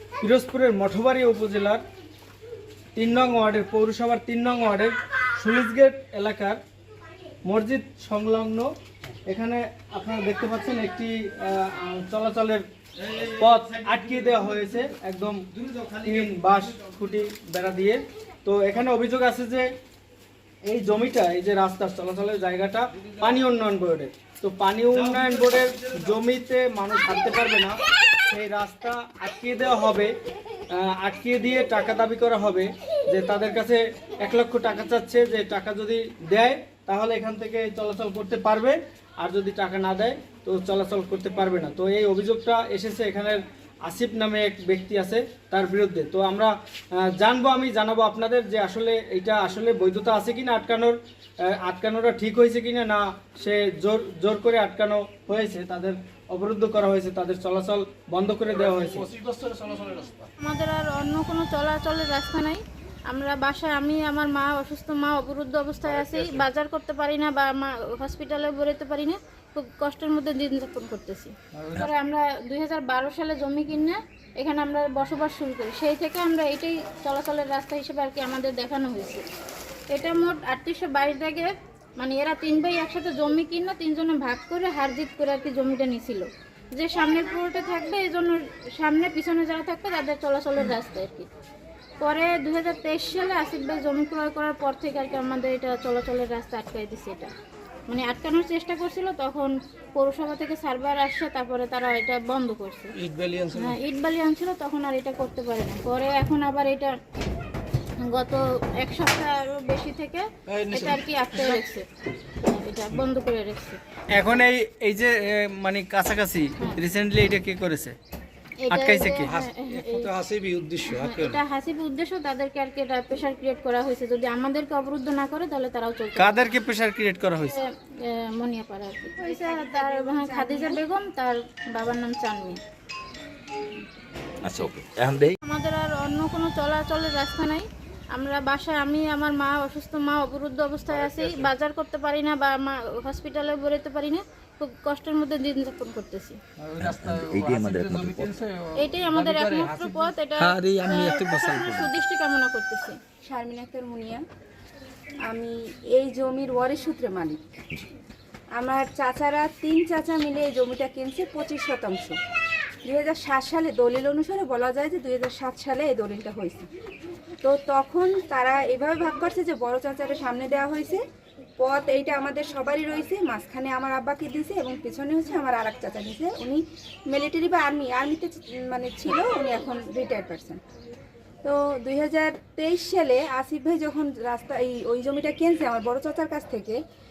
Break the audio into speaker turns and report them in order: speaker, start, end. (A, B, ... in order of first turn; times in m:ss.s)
0:00.2-0:01.8 A
0:03.0-0:06.6 A
0:07.4-0:08.7 A
0:09.3-0:12.6 A
0:13.3-0:15.4 A
0:16.0-0:19.7 A
0:20.6-0:27.8 A
0:28.3-0:30.1 A
0:30.7-0:46.5 A
0:47.0-0:59.0 A
0:58.5-1:00.3 B
1:00.4-1:19.2 C
1:05.8-1:06.5 B
1:11.6-1:11.9 B
1:19.9-1:31.3 C
1:32.0-1:37.3 C
1:37.9-1:42.9 C
1:42.9-1:43.8 B
1:43.6-1:46.9 C
1:48.0-1:51.9 C
1:50.5-1:51.6 B
1:52.4-1:53.8 C
1:54.1-1:58.0 A
1:58.6-2:00.1 C
1:58.7-1:59.3 A
1:59.2-2:01.4 B
2:00.9-2:06.4 C
2:06.2-2:07.6 A
2:08.3-2:12.6 C
2:09.2-2:10.8 D
2:14.4-2:15.4 E
2:15.4-2:26.4 C
2:20.9-2:21.5 B
2:26.6-2:31.8 B
2:26.8-2:28.3 E
2:28.8-2:33.0 C
2:33.2-2:34.2 D
2:35.3-2:37.4 D
2:38.6-2:42.2 D
2:42.8-2:46.7 D
2:47.4-2:51.0 D
2:51.6-3:00.6 D
3:01.4-3:06.8 D